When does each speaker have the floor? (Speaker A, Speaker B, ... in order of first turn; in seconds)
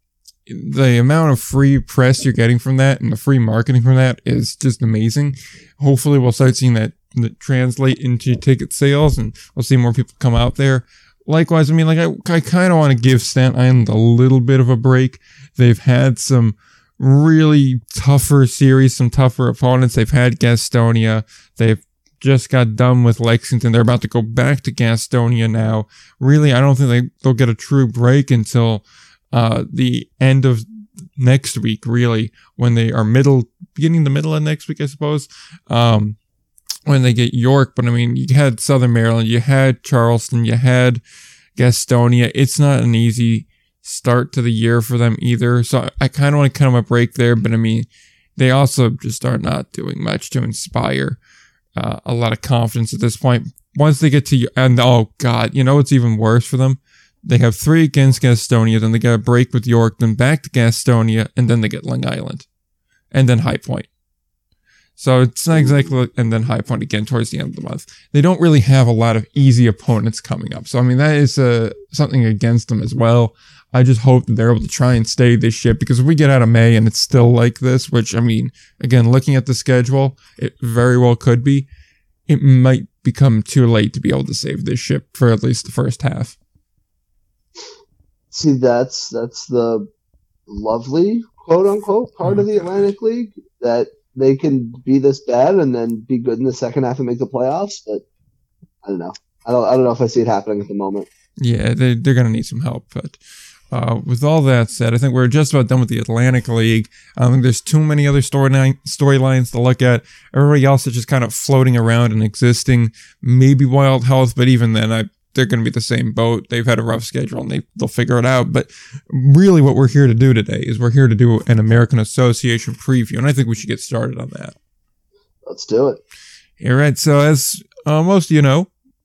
Speaker A: 0.5-30.6, 31.1-36.1, 36.9-41.0, 41.6-51.2, 51.8-62.5, 63.1-63.9, 65.0-81.7, 82.3-86.3, 92.2-92.8, 101.4-103.2, 103.7-124.5, 126.6-128.7
Speaker B: 88.3-89.9, 90.5-98.0, 98.8-101.1, 125.4-126.0